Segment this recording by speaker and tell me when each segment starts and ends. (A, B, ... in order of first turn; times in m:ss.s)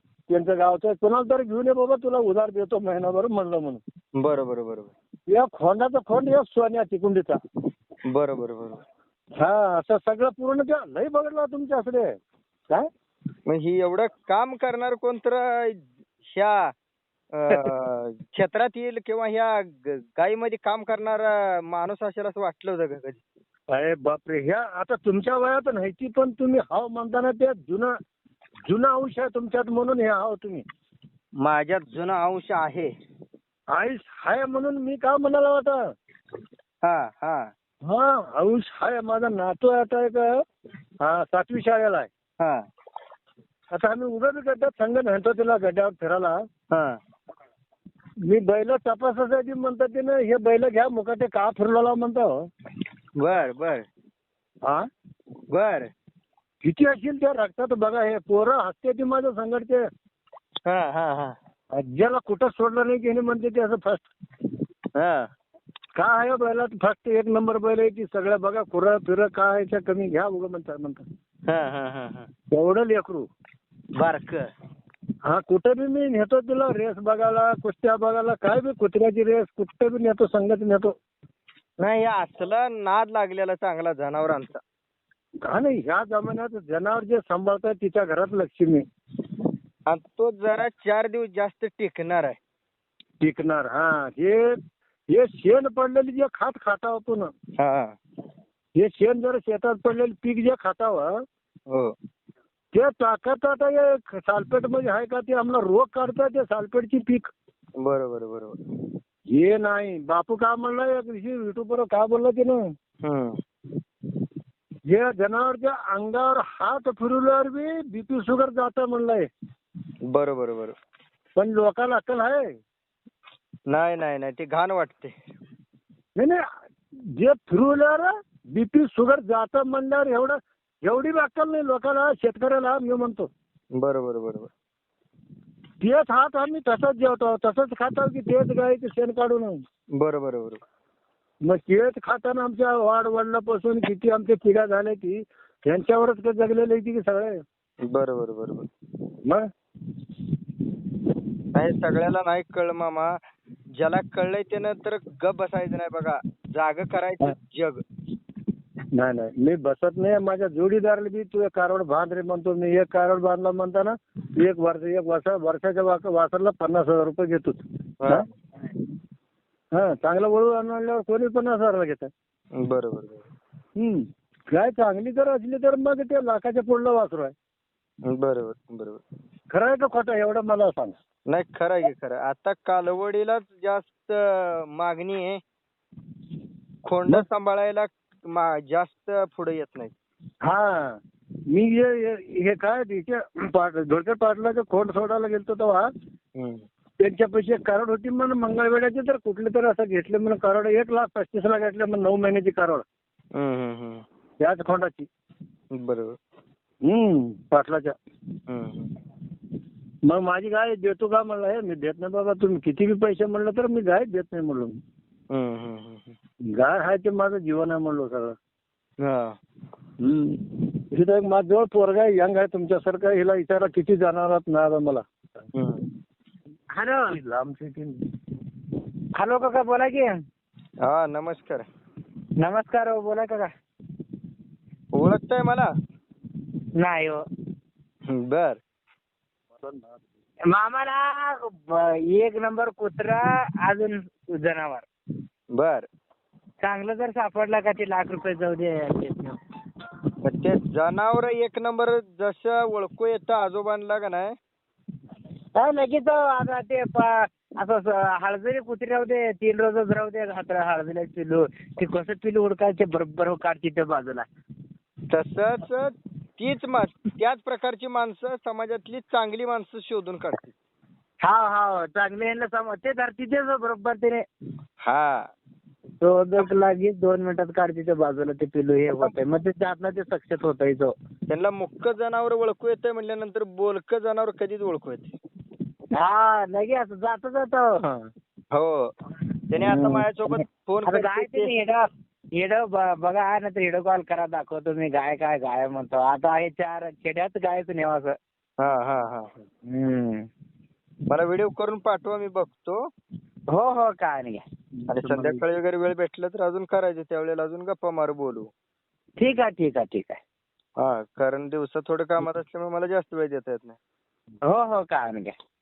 0:00.3-0:03.8 A
0:04.2-0:04.9 B
0:05.3-0:07.4 A
0:08.1-0:08.8 B
0:09.4-0:12.2 A
0:13.5-0:16.7 B
0:17.3-0:23.2 B
0:23.7-0:27.9 A
0:28.7-0:30.6 A
0:31.4-0:32.9 B
0:33.7-0:35.8 A
0:36.8-0:37.5 B
0:37.8-0:40.4 A
0:41.0-0:42.1 A
0:42.4-0:42.7 B
0:43.7-0:46.4 A
0:46.7-0:47.0 B
0:48.2-0:52.4 A
0:53.2-0:53.8 B
0:55.5-0:55.9 B
0:56.6-0:59.8 A
1:00.7-1:01.4 B
1:01.7-1:04.0 A
1:05.0-1:05.3 B
1:06.0-1:11.0 A
1:11.5-1:12.3 B
1:12.5-1:13.3 A
1:14.0-1:14.5 B
1:15.2-1:20.9 A
1:21.8-1:24.6 B
1:25.5-1:28.8 A
1:29.9-1:32.4 B
1:33.2-1:34.6 A
1:35.1-1:37.3 A
1:37.6-1:38.0 B
1:38.8-1:41.2 A
1:41.7-1:42.0 B
1:42.7-1:47.3 A
1:47.8-1:48.6 B
1:49.3-1:52.6 A
1:53.0-1:53.4 B
1:54.9-1:59.3 A
2:00.1-2:00.8 B
2:01.4-2:02.5 A
2:03.7-2:05.2 B
2:07.2-2:13.3 A
2:13.8-2:14.5 B
2:15.8-2:19.6 A
2:20.0-2:20.6 B
2:21.4-2:27.4 A
2:27.9-2:28.7 B
2:31.5-2:33.2 B
2:33.8-2:37.8 B
2:39.0-2:48.3 A
2:49.7-2:52.1 A
2:52.6-2:53.3 B
2:53.8-2:57.3 A
2:58.1-2:59.0 B
2:59.5-3:01.0 A
3:01.3-3:05.4 B
3:06.8-3:09.9 B
3:10.4-3:11.0 A
3:11.5-3:15.9 A
3:16.4-3:16.6 B
3:17.0-3:22.8 A
3:23.4-3:24.0 B
3:24.4-3:25.1 A
3:25.8-3:26.2 B
3:26.8-3:28.0 A
3:28.5-3:28.9 B
3:30.1-3:34.8 A
3:35.3-3:36.1 B
3:36.5-3:38.4 A
3:39.0-3:39.4 B
3:40.0-3:45.0 A
3:45.5-3:45.8 B
3:46.7-3:47.2 C
3:47.1-3:48.0 A
3:49.2-3:50.1 C
3:50.8-3:51.6 B
3:52.4-3:53.5 C
3:54.9-3:55.7 B
3:56.8-3:57.2 C
3:58.1-3:58.6 B
3:59.6-4:00.0 A
4:00.5-4:04.9 C
4:05.5-4:05.9 B
4:06.6-4:09.4 C
4:10.2-4:14.3 B
4:15.6-4:24.3 C
4:25.1-4:30.5 B
4:31.2-4:34.2 C
4:34.8-4:35.3 B
4:36.0-4:40.9 C
4:41.3-4:45.1 B
4:45.9-4:47.8 C
4:48.5-4:48.9 B
4:49.5-4:51.5 B
4:49.6-4:51.8 C
4:52.4-4:58.2 C
4:58.6-4:59.3 B
4:59.7-5:00.3 C
5:01.1-5:02.8 B
5:03.5-5:05.4 C
5:04.9-5:08.5 B
5:09.2-5:10.2 C
5:10.8-5:13.8 B
5:14.4-5:15.4 C